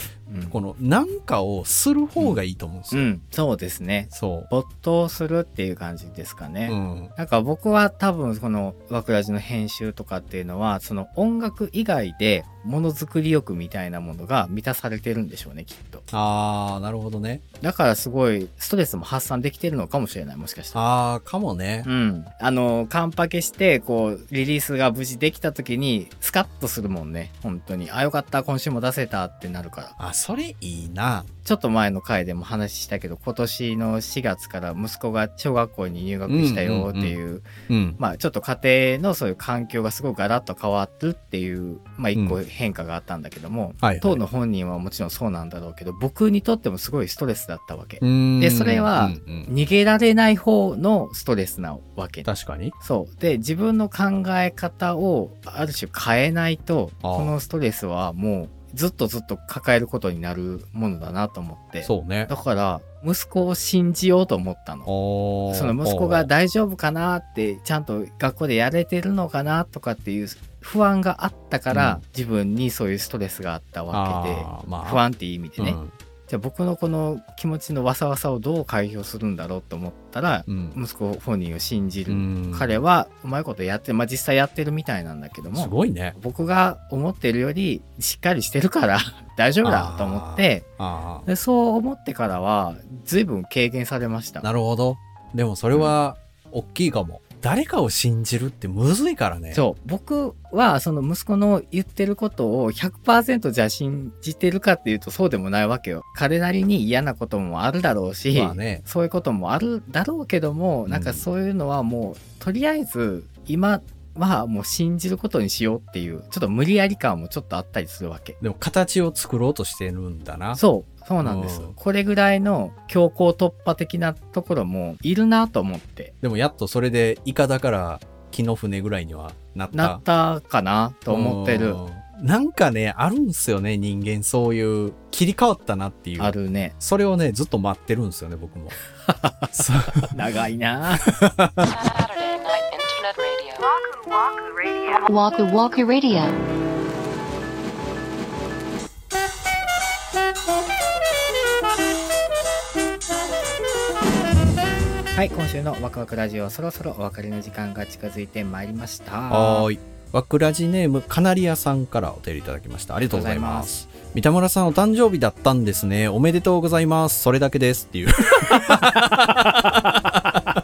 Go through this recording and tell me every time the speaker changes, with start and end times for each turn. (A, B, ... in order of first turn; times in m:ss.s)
0:00.3-0:00.6 A
0:00.5-0:03.1 B
0:02.9-0:16.1 A
0:04.1-0:04.5 B
0:06.6-0:07.1 B
0:16.1-0:17.4 B
0:17.6-0:20.8 A
0:20.7-0:21.9 B
0:21.8-0:29.9 A
0:30.0-0:31.3 B
0:31.4-0:37.5 A
0:36.2-0:37.2 B
0:37.7-0:38.0 B
0:38.0-0:52.3 A
0:42.1-0:42.4 B
0:43.8-0:44.2 B
0:48.0-0:49.5 B
0:52.2-0:52.7 B
0:52.8-1:04.9 A
0:57.0-0:57.3 B
1:01.8-1:02.3 B
1:04.8-1:06.3 B
1:05.5-1:30.6 A
1:11.7-1:12.0 B
1:13.9-1:15.0 B
1:15.6-1:15.9 B
1:20.4-1:20.8 B
1:22.1-1:22.8 B
1:25.5-1:26.2 B
1:29.6-1:31.3 B
1:31.2-1:34.5 A
1:34.4-1:39.6 B
1:39.5-1:58.4 A
1:48.3-1:48.8 B
1:50.9-1:51.2 B
1:58.4-2:00.6 B
2:00.5-2:06.1 A
2:01.2-2:01.7 B
2:06.2-2:10.0 B
2:09.7-2:11.8 A
2:11.1-2:18.8 B
2:16.2-2:16.7 A
2:19.1-2:19.5 A
2:19.5-2:20.1 B
2:20.1-2:21.1 A
2:21.0-2:21.7 B
2:21.6-2:23.7 C
2:24.9-2:26.4 C
2:35.1-2:39.7 A
2:39.3-2:49.4 B
2:43.1-2:43.7 A
2:48.6-2:49.9 A